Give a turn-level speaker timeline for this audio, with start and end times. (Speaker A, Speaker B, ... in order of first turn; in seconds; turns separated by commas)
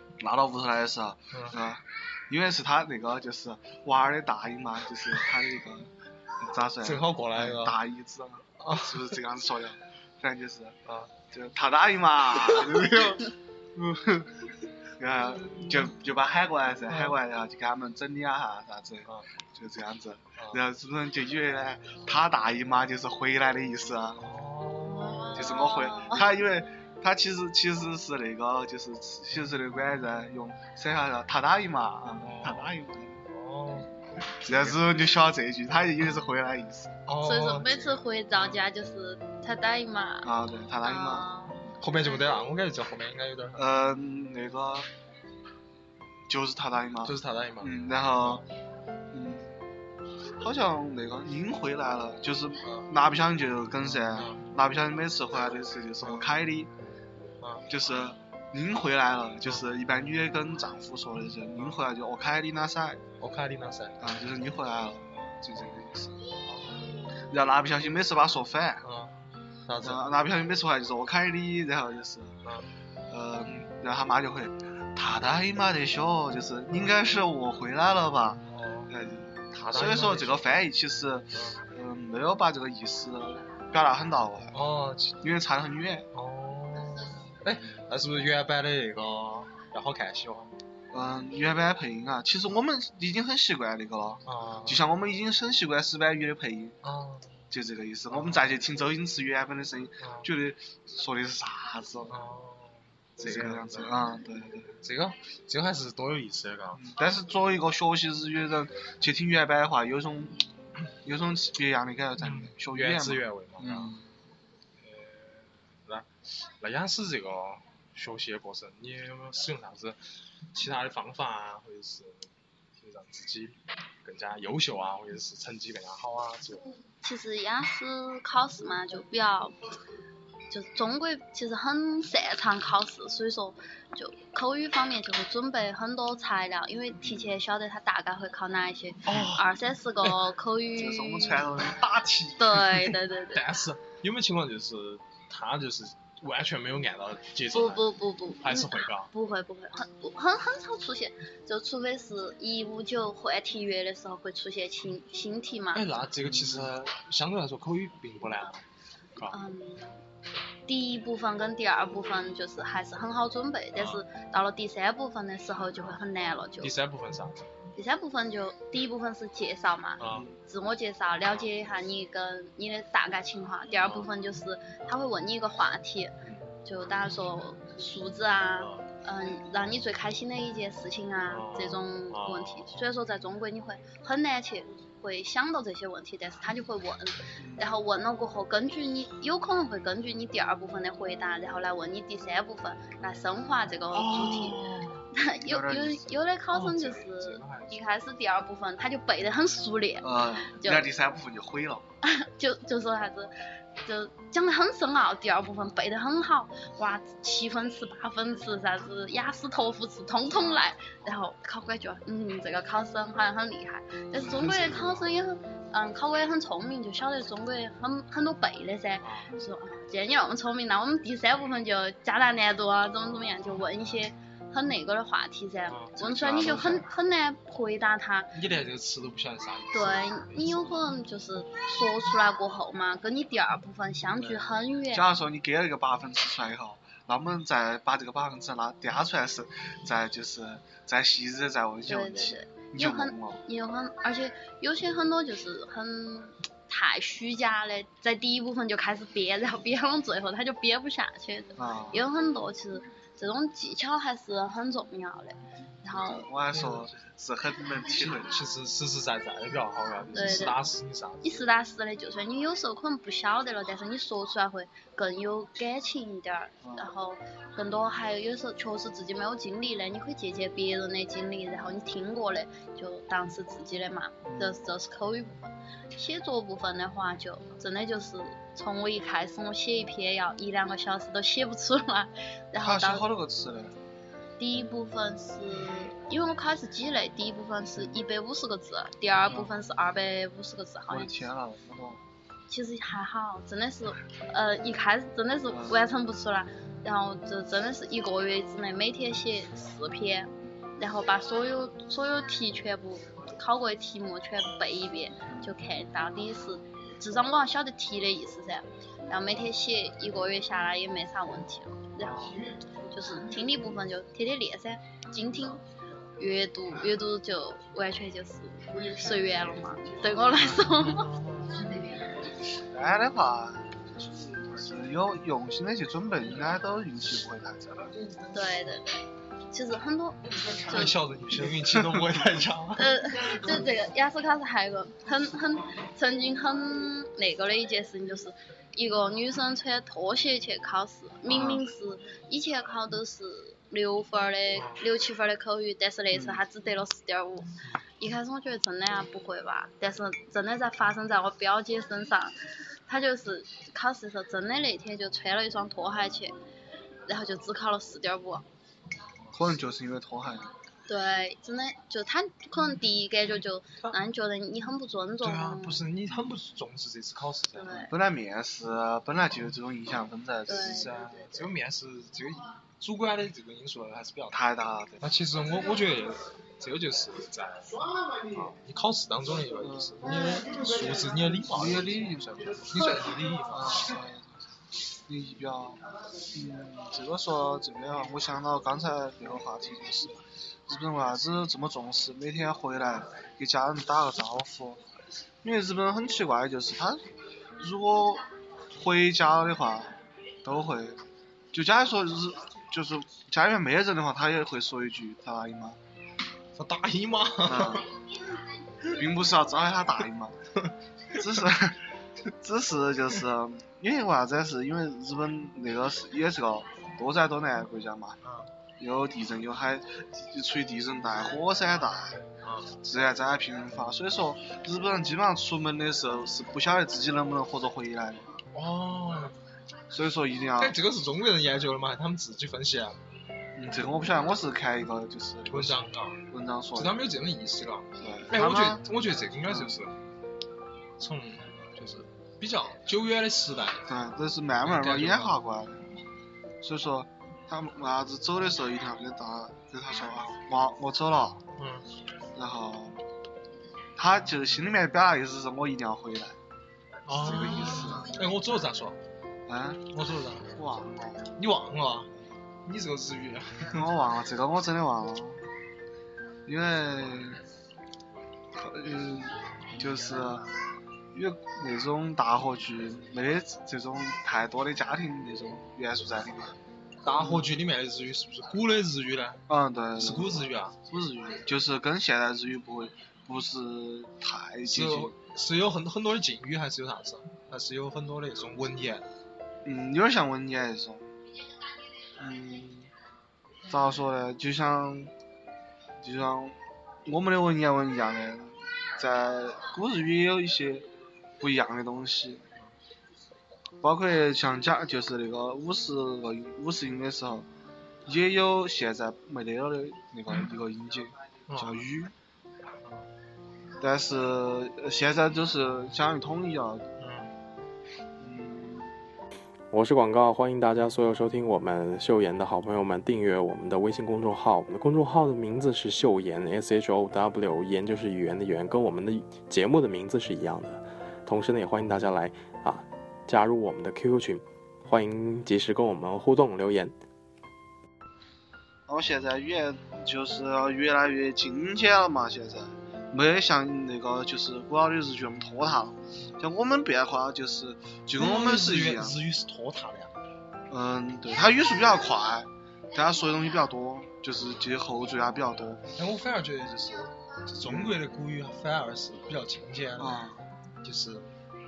Speaker A: 0.2-10.8, Speaker B: 1.3-1.6, Speaker B: 6.8-7.8, Speaker B: 8.6-9.2, Speaker B: 10.8-11.1, Speaker A: 11.3-14.4, Speaker A: 15.0-24.2, Speaker B: 15.5-15.8, Speaker B: 16.9-17.1, Speaker B: 20.4-20.6, Speaker B: 24.2-25.5, Speaker C: 24.8-26.2, Speaker A: 25.3-33.2, Speaker B: 32.2-32.7, Speaker B: 33.3-33.9, Speaker A: 34.4-37.0, Speaker B: 34.4-34.8, Speaker B: 37.1-38.6, Speaker C: 37.2-40.3, Speaker A: 40.2-41.3, Speaker C: 40.8-41.6, Speaker B: 41.8-43.6, Speaker A: 43.5-44.9, Speaker A: 46.3-48.5, Speaker B: 47.0-48.4, Speaker A: 49.1-49.5, Speaker A: 50.4-56.7, Speaker B: 53.9-54.4, Speaker B: 56.0-56.3, Speaker B: 57.4-57.7, Speaker A: 57.7-63.0, Speaker B: 63.2-64.0, Speaker A: 64.0-66.2, Speaker B: 66.5-67.0, Speaker A: 67.2-68.9, Speaker B: 68.8-69.1, Speaker B: 69.7-70.0, Speaker A: 69.8-72.4, Speaker A: 73.1-84.5, Speaker B: 78.5-78.9, Speaker B: 79.5-80.5, Speaker B: 81.3-81.6, Speaker B: 84.5-85.2, Speaker A: 85.2-86.1, Speaker B: 86.1-90.5, Speaker A: 90.9-96.8, Speaker B: 94.2-94.8, Speaker B: 96.8-97.4, Speaker A: 97.5-102.2, Speaker B: 98.1-98.5, Speaker B: 100.0-100.3, Speaker B: 102.1-104.0, Speaker A: 103.2-104.8, Speaker B: 104.8-106.8, Speaker A: 106.8-110.5, Speaker A: 111.0-114.1, Speaker B: 112.2-113.9, Speaker B: 114.8-116.1, Speaker B: 116.6-120.0, Speaker B: 120.5-126.6, Speaker C: 127.0-129.6, Speaker C: 130.5-141.6, Speaker A: 137.0-137.3, Speaker B: 139.1-139.5, Speaker A: 140.8-142.4, Speaker C: 142.4-143.4, Speaker B: 142.5-147.9, Speaker C: 147.5-155.8, Speaker B: 148.4-149.1, Speaker B: 155.7-158.6, Speaker A: 156.2-156.7, Speaker C: 159.3-159.9, Speaker C: 160.7-166.7, Speaker B: 163.8-164.0, Speaker B: 166.6-167.4, Speaker C: 167.7-176.1, Speaker B: 170.0-170.3, Speaker B: 173.8-174.1, Speaker C: 176.6-194.6, Speaker B: 178.6-178.8, Speaker B: 181.3-182.8, Speaker A: 187.4-187.7, Speaker B: 193.9-195.0, Speaker C: 195.1-200.9, Speaker A: 195.4-196.1, Speaker B: 196.5-197.8, Speaker A: 200.0-201.8, Speaker C: 202.0-203.3, Speaker C: 203.8-228.3, Speaker B: 214.4-214.8, Speaker A: 214.5-214.9, Speaker B: 219.0-219.3, Speaker B: 225.7-226.0, Speaker A: 226.0-226.8, Speaker B: 228.3-230.9, Speaker C: 229.7-235.0, Speaker B: 234.2-234.4, Speaker A: 234.9-243.4, Speaker C: 241.9-256.3, Speaker A: 251.6-252.0, Speaker A: 255.9-258.4, Speaker B: 256.5-256.9, Speaker B: 257.9-261.5, Speaker C: 260.1-260.6, Speaker C: 261.2-283.1, Speaker A: 266.6-266.9, Speaker A: 274.2-274.6, Speaker A: 282.6-283.8, Speaker C: 284.4-291.1, Speaker A: 290.9-292.0, Speaker C: 292.5-312.3, Speaker A: 295.5-295.8, Speaker B: 312.0-312.3, Speaker C: 312.9-315.6, Speaker C: 316.2-321.1, Speaker B: 320.0-321.8, Speaker A: 322.6-327.9, Speaker C: 328.3-330.9, Speaker B: 330.6-333.0, Speaker A: 331.6-332.4, Speaker C: 332.8-356.3, Speaker B: 341.3-341.6, Speaker A: 346.1-346.4, Speaker C: 357.1-358.4, Speaker A: 359.3-360.5, Speaker C: 360.9-365.8, Speaker B: 365.2-367.9, Speaker C: 367.5-367.9, Speaker A: 367.9-370.9, Speaker C: 370.5-370.9, Speaker B: 370.5-374.4, Speaker A: 374.3-375.0, Speaker B: 375.0-383.9, Speaker A: 379.6-380.0, Speaker A: 381.5-382.9, Speaker A: 383.5-384.4, Speaker A: 385.1-394.8, Speaker A: 395.4-397.0, Speaker A: 397.6-399.9, Speaker A: 400.4-401.0, Speaker A: 401.5-405.8, Speaker B: 406.6-407.9, Speaker A: 407.4-407.9, Speaker A: 408.9-410.4, Speaker A: 411.1-411.8, Speaker A: 412.4-418.2, Speaker A: 418.8-422.2, Speaker B: 422.4-422.8, Speaker A: 422.8-428.4, Speaker B: 428.5-429.4, Speaker A: 429.9-430.8, Speaker B: 430.6-433.0, Speaker A: 433.6-436.9, Speaker B: 435.5-436.2, Speaker B: 436.8-439.9, Speaker A: 438.0-438.8, Speaker A: 439.4-439.8, Speaker B: 441.0-443.9, Speaker A: 443.9-445.8, Speaker B: 444.6-445.4, Speaker A: 446.6-451.4, Speaker B: 451.6-451.9, Speaker A: 452.3-453.0, Speaker A: 453.9-456.4, Speaker B: 457.1-459.0, Speaker A: 457.1-458.1, Speaker A: 459.5-459.9, Speaker B: 459.9-460.5, Speaker A: 460.5-461.3, Speaker B: 461.4-462.1, Speaker B: 462.6-463.8, Speaker A: 463.7-465.4, Speaker A: 466.4-467.4, Speaker A: 468.5-470.5, Speaker A: 471.1-476.6, Speaker B: 477.0-479.4, Speaker A: 477.1-477.5, Speaker A: 479.5-485.1, Speaker B: 480.0-480.7, Speaker B: 484.7-489.0, Speaker A: 489.6-491.1, Speaker A: 492.2-492.9, Speaker A: 493.7-495.1, Speaker A: 496.0-500.9, Speaker A: 501.4-502.4, Speaker A: 503.8-507.5, Speaker A: 508.1-512.1, Speaker B: 511.5-511.8, Speaker A: 513.8-516.8, Speaker B: 517.0-517.3, Speaker A: 518.2-518.9, Speaker D: 519.7-536.9, Speaker A: 538.9-549.2, Speaker B: 548.2-550.1, Speaker A: 550.7-555.8, Speaker B: 556.0-560.2, Speaker A: 557.6-558.0, Speaker A: 560.0-560.4, Speaker B: 560.8-561.2